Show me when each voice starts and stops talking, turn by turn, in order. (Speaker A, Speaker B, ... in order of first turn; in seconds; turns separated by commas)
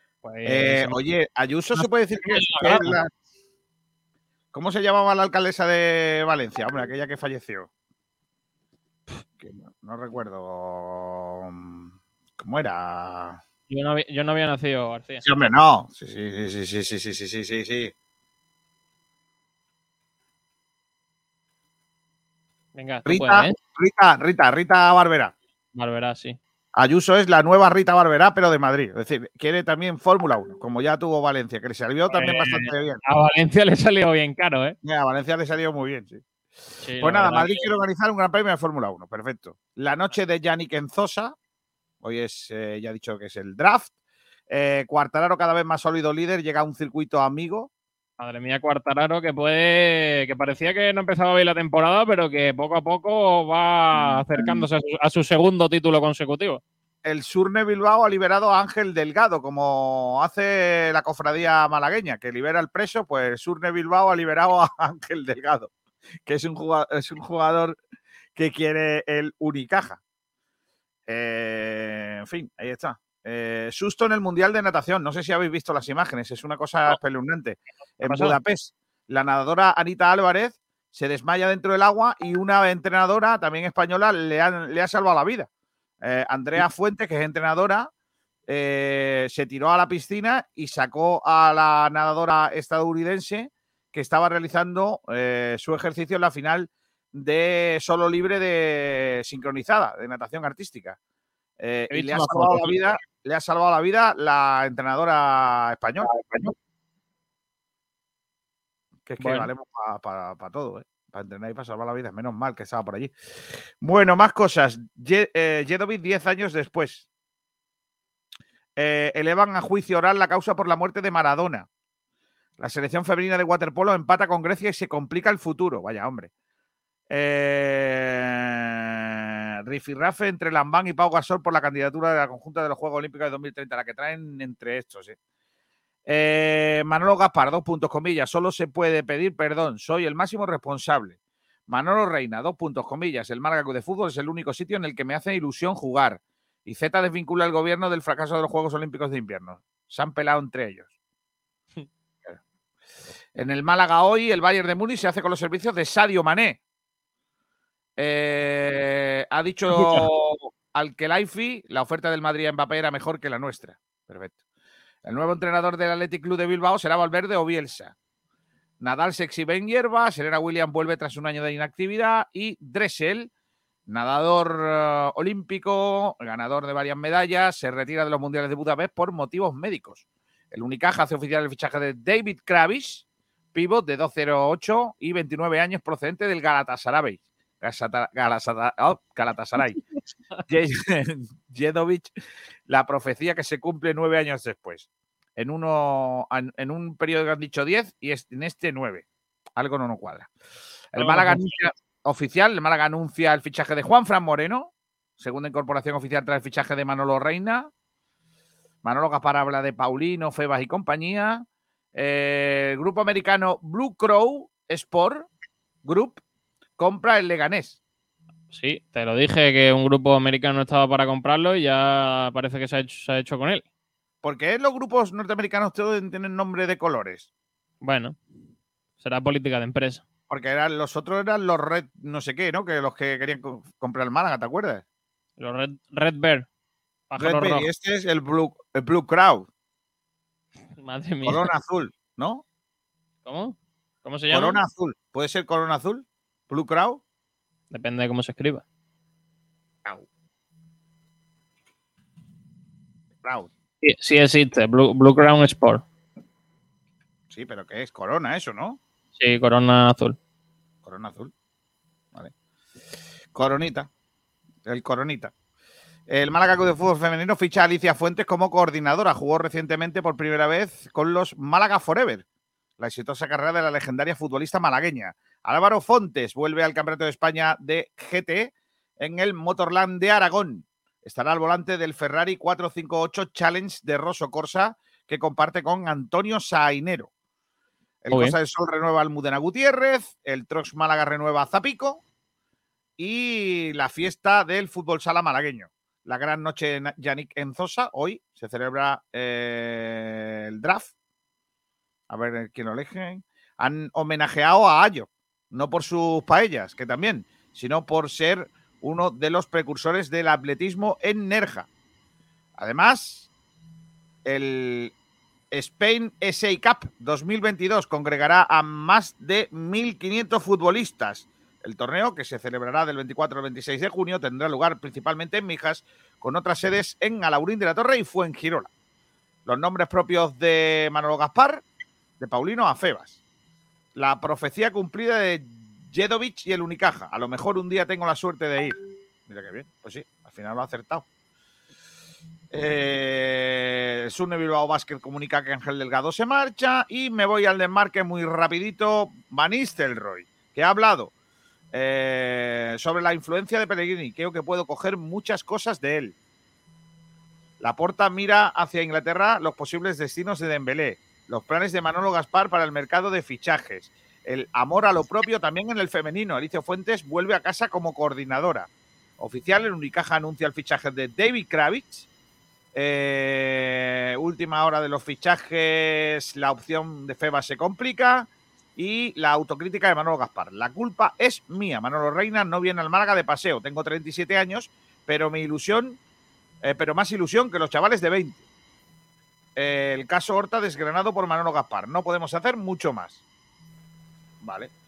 Speaker A: 0.2-0.9, Speaker B: 0.4-3.1, Speaker A: 1.7-3.0, Speaker B: 4.5-7.7, Speaker B: 9.4-13.4, Speaker A: 13.7-15.2, Speaker B: 15.2-17.9, Speaker A: 22.7-23.5, Speaker B: 23.1-25.3, Speaker A: 25.7-26.4, Speaker B: 26.8-33.0, Speaker A: 32.1-34.8, Speaker B: 34.8-36.2, Speaker A: 36.8-37.7, Speaker B: 37.0-41.3, Speaker B: 42.0-43.9, Speaker B: 44.5-47.7, Speaker A: 48.2-56.6, Speaker B: 53.9-54.7, Speaker B: 57.0-65.7, Speaker B: 66.2-67.8, Speaker B: 68.3-70.0, Speaker B: 71.1-85.5, Speaker A: 78.0-78.3, Speaker B: 86.0-87.9, Speaker B: 88.5-101.0, Speaker B: 101.6-106.1, Speaker A: 101.9-103.0, Speaker A: 106.0-106.5, Speaker B: 109.0-117.0, Speaker A: 109.2-109.5, Speaker B: 118.8-121.7, Speaker B: 122.6-126.3, Speaker B: 127.1-135.2, Speaker B: 136.1-150.9, Speaker B: 153.3-156.6, Speaker B: 158.0-164.4, Speaker A: 159.7-160.1, Speaker B: 165.0-167.9, Speaker B: 168.8-173.3, Speaker B: 173.9-189.8, Speaker B: 190.5-192.1, Speaker B: 192.7-199.1, Speaker B: 199.6-200.3, Speaker B: 200.9-207.7, Speaker A: 200.9-201.6, Speaker B: 208.8-215.3, Speaker B: 215.8-216.2, Speaker B: 216.8-217.8, Speaker A: 218.5-223.6, Speaker B: 224.2-227.3, Speaker A: 227.8-228.2, Speaker A: 229.0-230.0, Speaker B: 230.3-234.8, Speaker A: 235.4-236.4, Speaker A: 237.1-237.7, Speaker B: 237.2-239.5, Speaker A: 240.8-241.5, Speaker B: 241.2-242.4, Speaker A: 243.2-244.6, Speaker B: 244.3-247.0, Speaker A: 247.7-248.6, Speaker B: 253.2-253.5, Speaker A: 253.8-255.8, Speaker B: 257.3-258.8, Speaker A: 259.2-260.1, Speaker B: 260.8-261.3, Speaker B: 263.3-263.9, Speaker B: 264.6-265.3, Speaker B: 266.1-272.2, Speaker B: 272.8-287.1, Speaker B: 288.0-292.0, Speaker B: 293.0-300.9, Speaker B: 302.1-311.7, Speaker B: 312.6-313.3, Speaker B: 314.2-314.9, Speaker B: 315.5-328.7, Speaker B: 329.4-331.6, Speaker B: 332.2-333.2, Speaker B: 333.9-341.1, Speaker B: 342.5-351.1, Speaker B: 351.7-356.1, Speaker B: 357.6-372.1, Speaker B: 372.7-386.0, Speaker B: 386.6-388.4, Speaker B: 389.6-393.2, Speaker B: 394.4-394.7